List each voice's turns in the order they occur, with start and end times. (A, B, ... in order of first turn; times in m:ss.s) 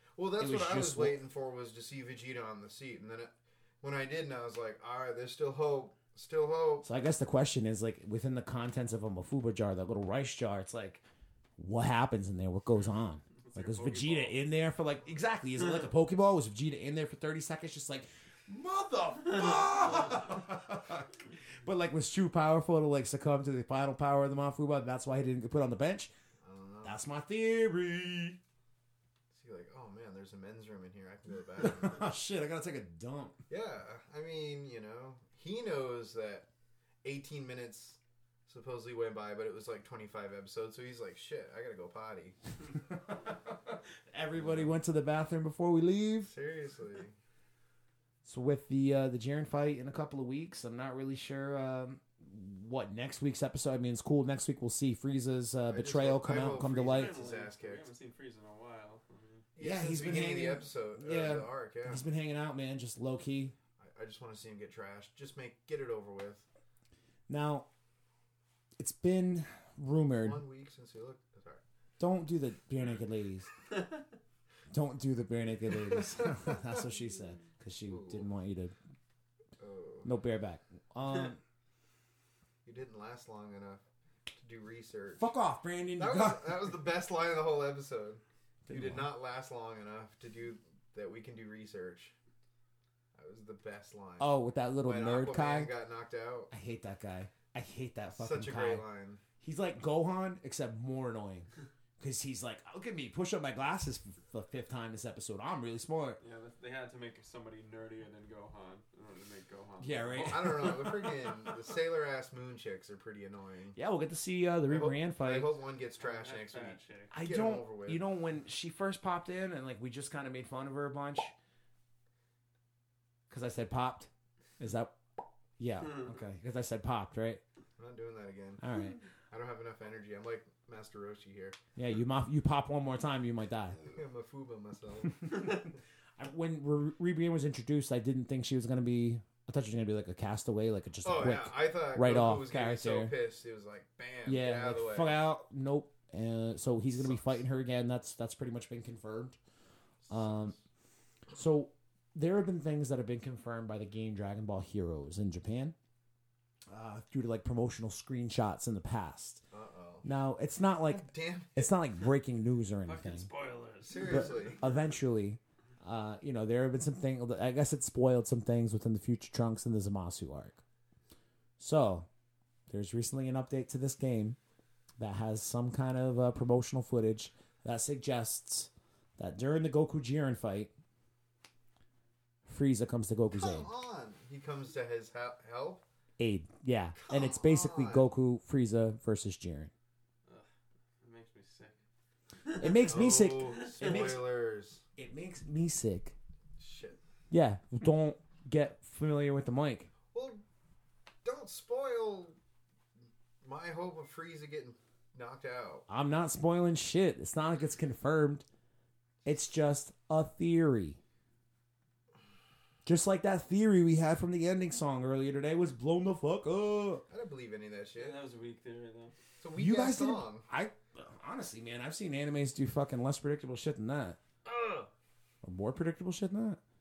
0:00.2-0:06.9 A
0:00.4-0:01.2 B
0:06.8-0:11.0 B
0:11.6-0:26.1 B
0:13.4-0:14.4 C
0:26.4-0:27.0 A
0:26.8-0:28.4 B
0:29.3-0:32.1 A
0:31.6-0:33.4 B
0:33.5-0:36.5 A
0:37.0-0:42.4 A
0:42.8-0:46.3 B
0:44.4-0:44.7 A
0:46.3-0:47.2 A
0:48.2-0:57.1 B
0:55.7-0:57.9 A
0:56.9-0:59.5 C
0:59.6-1:02.0 A
0:59.6-1:03.6 B
1:03.8-1:06.5 A
1:07.3-1:07.7 B
1:08.8-1:10.4 B
1:10.2-1:11.6 A
1:12.0-1:13.5 B
1:14.7-1:18.8 B
1:15.8-1:16.6 A
1:17.9-1:18.3 A
1:19.6-1:20.1 A
1:20.0-1:21.4 B
1:22.6-1:23.8 A
1:24.4-1:25.3 A
1:25.2-1:26.7 B
1:26.0-1:32.1 A
1:28.7-1:29.1 B
1:33.2-1:34.3 A
1:34.2-1:35.7 B
1:34.8-1:36.5 A
1:36.5-1:38.8 B
1:38.1-1:39.2 A
1:39.4-1:41.5 B
1:42.0-1:46.2 B
1:46.2-1:51.1 C
1:49.8-1:50.9 B
1:50.2-1:53.8 A
1:53.8-1:55.5 B
1:54.7-1:58.0 A
1:56.0-1:57.1 C
1:57.1-2:01.3 B
2:03.3-2:05.0 B
2:05.6-2:07.4 B
2:07.8-2:08.7 A
2:08.6-2:09.0 B
2:09.3-2:11.6 A
2:11.8-2:13.9 B
2:13.9-2:15.6 A
2:15.2-2:23.1 B
2:21.0-2:25.2 A
2:24.3-2:29.4 B
2:30.0-2:30.6 A
2:30.1-2:30.6 B
2:31.3-2:35.8 B
2:36.7-2:39.4 B
2:39.5-2:40.1 A
2:40.0-2:43.3 B
2:40.9-2:41.8 A
2:42.8-2:44.8 C
2:43.9-2:44.6 A
2:44.0-2:50.6 B
2:51.6-2:52.1 B
2:52.7-2:54.4 B
2:55.0-3:00.7 B
3:02.5-3:03.7 B
3:03.3-3:05.8 A
3:06.2-3:09.7 B
3:07.0-3:08.1 A
3:11.0-3:11.8 C
3:12.4-3:12.9 C
3:12.6-3:14.2 B
3:12.9-3:14.8 A
3:13.6-3:14.2 C
3:15.0-3:16.2 B
3:16.6-3:17.0 A
3:17.3-3:19.9 B
3:20.1-3:20.4 A
3:21.2-3:22.4 A
3:23.4-3:25.8 A
3:25.9-3:28.5 B
3:29.2-3:31.0 B
3:32.8-3:37.0 B
3:37.1-3:38.2 A
3:38.0-3:39.2 C
3:39.4-3:40.5 A
3:39.6-3:44.2 B
3:44.4-3:44.9 A
3:45.4-3:46.6 B